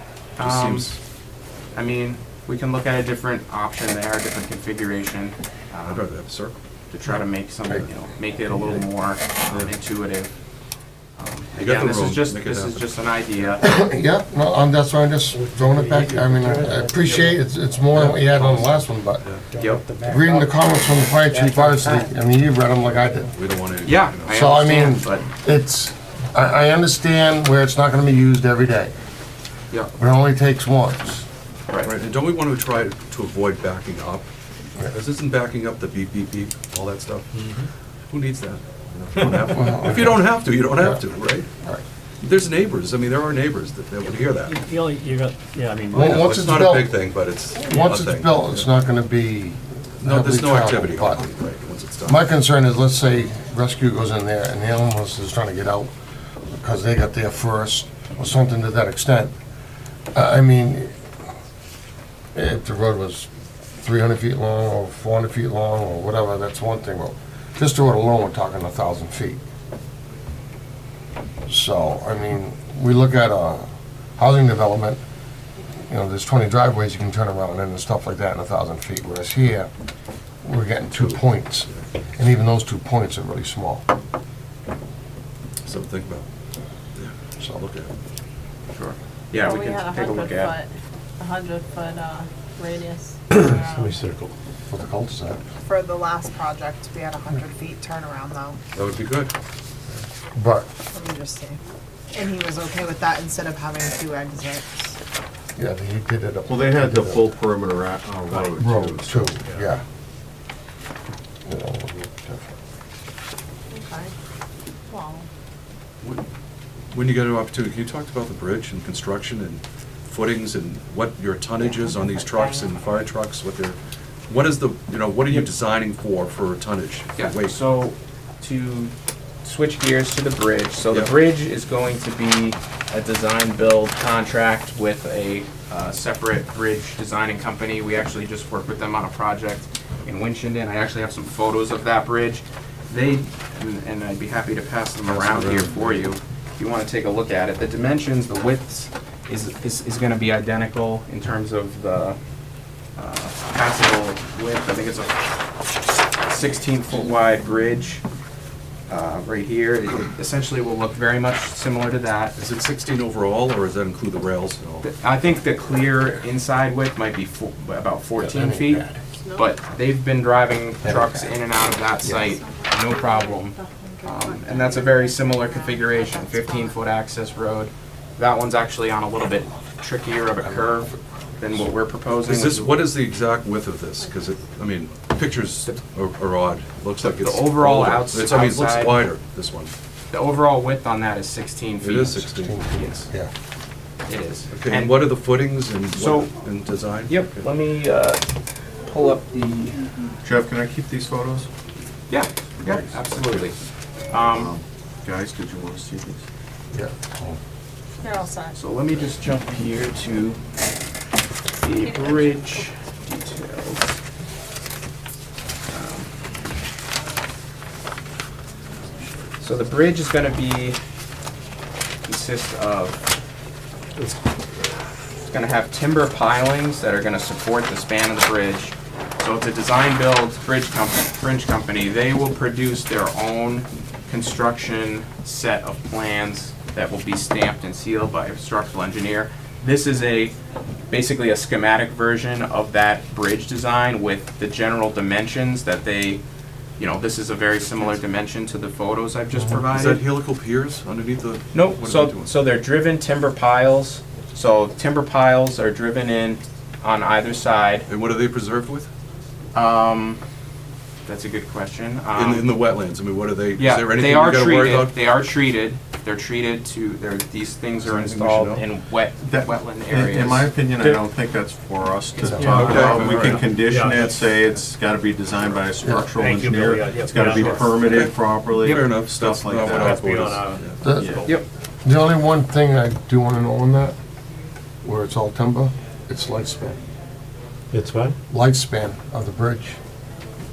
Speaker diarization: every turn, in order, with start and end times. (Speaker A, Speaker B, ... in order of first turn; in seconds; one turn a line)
Speaker A: 0.4-1.0
Speaker B: 0.4-1.0
Speaker A: 1.7-6.0
Speaker B: 5.8-6.5
Speaker A: 6.9-10.3
Speaker A: 11.2-13.9
Speaker B: 11.6-13.6
Speaker C: 13.6-19.3
Speaker D: 15.3-17.4
Speaker B: 17.9-18.7
Speaker D: 19.5-22.1
Speaker A: 19.6-19.9
Speaker C: 19.9-23.3
Speaker B: 23.4-24.5
Speaker A: 23.9-25.3
Speaker C: 24.3-28.9
Speaker C: 30.0-31.3
Speaker B: 31.8-34.3
Speaker B: 34.8-37.5
Speaker B: 38.1-41.5
Speaker C: 39.5-41.0
Speaker B: 42.2-44.6
Speaker D: 44.4-46.0
Speaker C: 45.9-47.0
Speaker B: 45.9-48.7
Speaker C: 47.5-51.3
Speaker B: 50.0-52.2
Speaker C: 52.1-55.9
Speaker C: 56.5-59.3
Speaker C: 60.1-60.9
Speaker C: 62.3-69.4
Speaker C: 71.5-75.0
Speaker C: 75.9-79.7
Speaker C: 80.4-83.8
Speaker B: 85.6-86.3
Speaker B: 87.0-87.9
Speaker C: 87.4-87.7
Speaker A: 88.7-90.7
Speaker E: 89.3-93.8
Speaker D: 93.3-94.3
Speaker C: 94.7-95.4
Speaker F: 95.7-98.6
Speaker B: 98.7-99.3
Speaker C: 100.3-100.7
Speaker F: 100.9-101.6
Speaker F: 102.1-105.0
Speaker C: 105.6-107.3
Speaker G: 106.5-109.4
Speaker C: 108.6-109.8
Speaker C: 111.5-112.5
Speaker B: 116.9-123.8
Speaker F: 121.9-122.5
Speaker B: 124.3-127.6
Speaker A: 127.2-128.9
Speaker A: 129.4-152.2
Speaker B: 145.1-146.0
Speaker A: 153.0-155.3
Speaker A: 156.2-158.0
Speaker A: 158.9-162.4
Speaker B: 162.4-164.9
Speaker A: 164.8-182.8
Speaker C: 168.2-169.0
Speaker E: 169.2-169.5
Speaker C: 170.8-171.2
Speaker E: 172.2-176.7
Speaker B: 182.3-189.7
Speaker A: 187.0-189.1
Speaker A: 190.1-193.1
Speaker B: 191.8-192.6
Speaker C: 192.4-193.3
Speaker A: 194.1-195.1
Speaker B: 194.5-197.4
Speaker A: 195.9-196.3
Speaker A: 197.1-198.2
Speaker A: 198.8-199.8
Speaker G: 200.2-201.5
Speaker A: 202.1-203.6
Speaker G: 202.6-203.1
Speaker A: 204.1-204.6
Speaker G: 204.3-206.2
Speaker C: 206.7-207.4
Speaker F: 208.0-208.6
Speaker A: 208.5-210.4
Speaker A: 211.5-214.0
Speaker E: 211.9-212.6
Speaker A: 215.7-216.1
Speaker A: 219.4-220.8
Speaker A: 222.1-223.1
Speaker A: 225.3-240.3
Speaker A: 240.9-246.2
Speaker A: 246.8-250.0
Speaker B: 249.6-252.3
Speaker A: 251.5-257.9
Speaker B: 257.9-258.9
Speaker A: 259.5-260.2
Speaker A: 261.1-262.6
Speaker B: 262.1-265.0
Speaker A: 263.6-271.0
Speaker B: 267.8-268.6
Speaker G: 269.2-281.3
Speaker D: 272.3-274.3
Speaker B: 272.5-273.4
Speaker C: 275.8-276.1
Speaker D: 276.1-278.1
Speaker B: 277.8-280.7
Speaker D: 279.6-281.3
Speaker C: 280.8-281.2
Speaker C: 281.8-283.9
Speaker C: 284.8-286.8
Speaker D: 287.7-288.2
Speaker C: 288.3-289.8